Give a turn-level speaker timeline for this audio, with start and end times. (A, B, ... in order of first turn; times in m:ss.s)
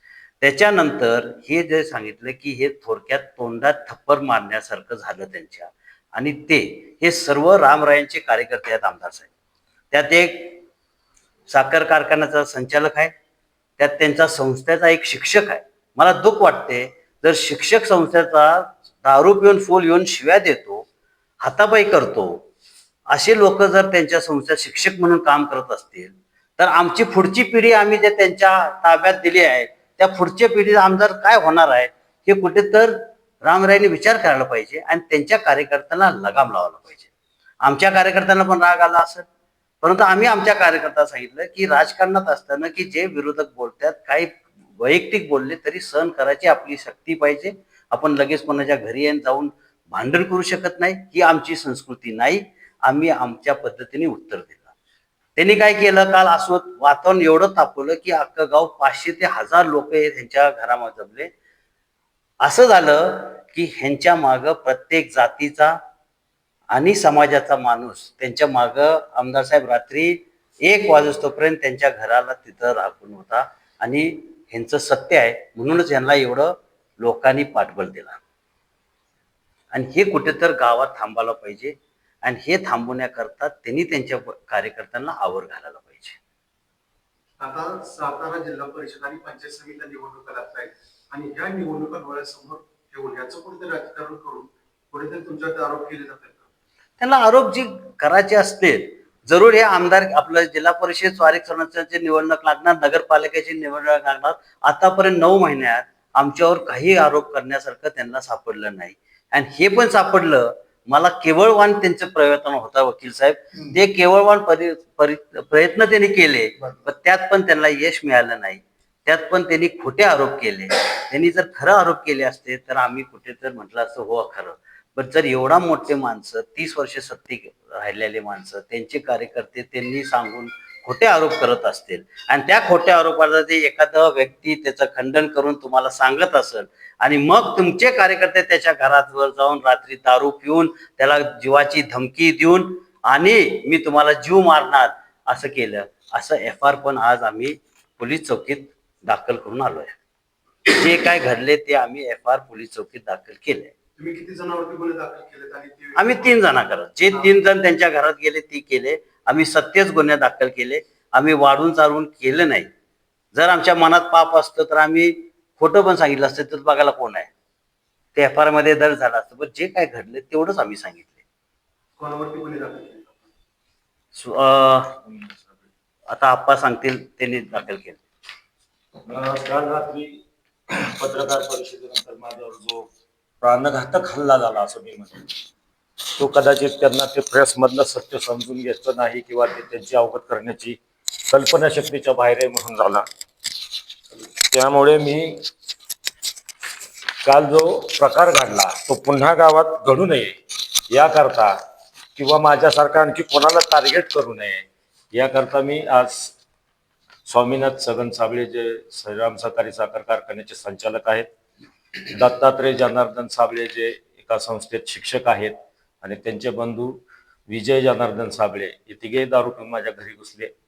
0:00.4-0:09.3 A
0:09.9-0:10.6 A
0:11.5-0:13.1 A
0:13.8-0:20.8 A
0:21.4-0:22.4 A
0:23.1-0:37.1 A
0:37.6-0:39.2 A
0:39.8-0:54.7 A
0:55.4-1:01.3 A
1:02.4-1:05.7 A
1:06.7-1:18.2 A
1:19.7-1:26.2 A
1:27.4-1:36.4 B
1:37.0-2:30.0 A
2:30.7-2:33.7 A
2:34.0-2:36.3 B
2:36.0-2:42.7 A
2:43.3-2:47.3 A
2:48.2-2:51.2 A
2:52.0-2:53.1 B
2:54.2-2:55.0 A
2:55.1-2:55.5 C
2:56.1-2:58.0 A
2:59.0-3:02.9 C
3:03.4-3:05.3 C
3:06.2-3:13.0 C
3:14.5-3:15.4 C
3:17.2-3:20.4 C
3:20.9-3:21.5 C
3:22.2-3:26.3 C
3:27.2-3:31.3 C
3:31.9-3:36.9 C
3:37.5-3:40.5 C